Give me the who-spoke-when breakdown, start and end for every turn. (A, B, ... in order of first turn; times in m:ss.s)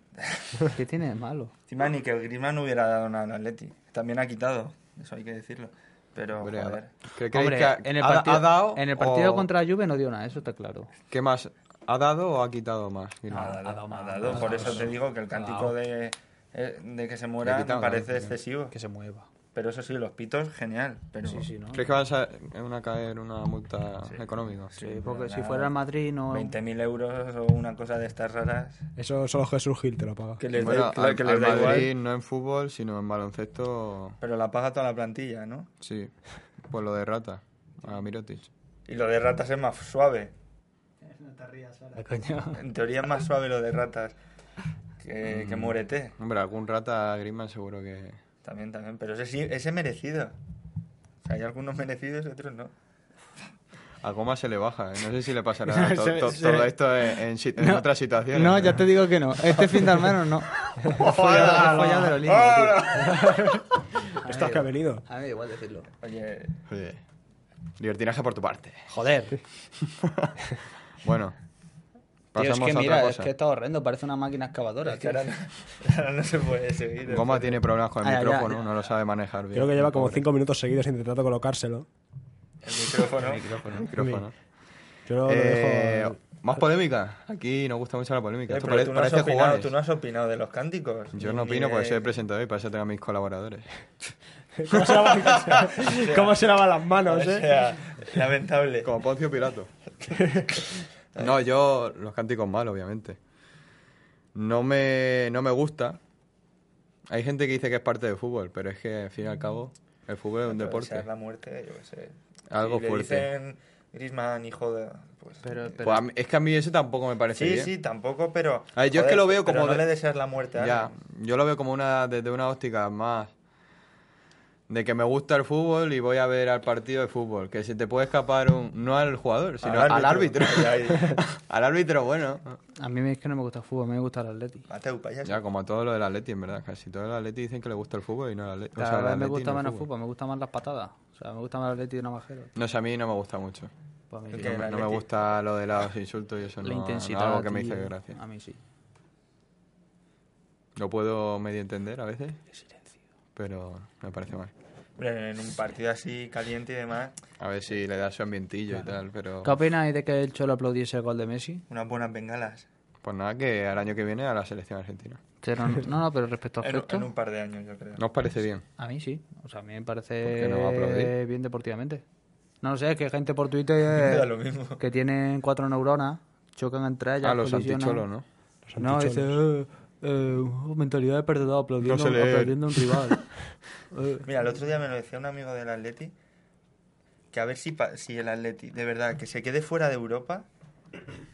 0:00.2-0:00.7 A
0:00.7-0:01.5 B
0:01.7-0:06.9 A
0:06.4-0:09.5 C
0:07.3-0:10.9 B
0:11.1-0:13.6 C
0:13.3-0:18.8 A
0:13.3-0:15.8 B
0:17.4-0:18.4 C
0:18.7-0:19.3 B
0:19.6-0:21.5 A
0:21.2-0:21.8 B
0:21.7-0:24.7 C
0:24.7-0:25.7 A
0:24.8-0:26.6 B
0:26.3-0:28.9 A
0:29.0-0:30.4 D
0:30.4-0:31.9 A
0:30.6-0:34.2 C
0:34.2-0:35.7 A
0:35.8-0:38.5 C
0:38.9-0:40.3 A
0:41.0-0:42.6 B
0:42.6-0:44.2 A
0:45.0-0:46.1 A
0:45.3-0:48.2 C
0:48.4-0:50.4 A
0:51.2-0:52.7 A
0:54.0-1:00.0 C
0:55.7-0:56.7 B
0:57.6-1:05.9 B
1:00.7-1:03.0 C
1:01.0-1:02.1 D
1:03.2-1:03.6 D
1:04.2-1:05.0 D
1:06.0-1:06.6 A
1:06.7-1:07.0 C
1:07.8-1:08.9 C
1:08.9-1:09.4 B
1:09.8-1:10.4 C
1:11.0-1:11.4 C
1:12.3-1:13.3 C
1:12.4-1:15.3 B
1:14.8-1:17.6 A
1:17.1-1:20.2 C
1:18.0-1:18.7 B
1:19.5-1:21.9 D
1:22.6-1:23.4 A
1:23.2-1:23.9 B
1:23.9-1:24.3 C
1:24.0-1:24.2 D
1:25.1-1:26.2 D
1:25.2-1:29.7 C
1:28.5-1:32.1 A
1:31.1-1:33.7 C
1:34.6-1:37.6 D
1:35.7-1:36.4 A
1:37.0-1:38.9 A
1:38.8-1:39.7 C
1:41.2-1:43.2 C
1:44.4-1:46.0 C
1:47.1-1:51.1 C
1:50.5-1:55.8 A
1:52.5-1:53.3 C
1:55.4-1:56.0 B
1:55.8-1:57.7 C
1:57.4-2:00.9 A
1:58.8-1:59.9 C
2:00.6-2:03.3 C
2:04.7-2:12.6 C
2:09.6-2:11.2 A
2:12.8-2:14.7 B
2:14.7-2:15.4 A
2:15.2-2:19.9 C
2:18.8-2:22.5 B
2:22.6-2:23.7 C
2:24.1-2:24.9 B
2:24.3-2:25.1 A
2:24.3-2:28.2 C
2:26.6-2:28.6 B
2:30.8-2:32.4 C
2:33.4-2:34.5 C
2:35.0-2:37.1 A
2:37.4-2:39.6 C
2:39.4-2:41.6 B
2:41.7-2:42.7 A
2:43.0-2:45.2 C
2:45.4-2:47.1 B
2:46.6-2:48.0 A
2:48.0-2:48.6 C
2:48.8-2:52.0 B
2:50.2-2:51.2 C
2:52.6-2:58.1 B
2:53.9-2:54.8 A
2:57.2-2:58.2 C
2:58.7-2:59.4 D
2:58.8-3:03.3 B
3:01.8-3:03.2 C
3:03.9-3:04.3 B
3:04.2-3:06.1 A
3:07.3-3:10.5 A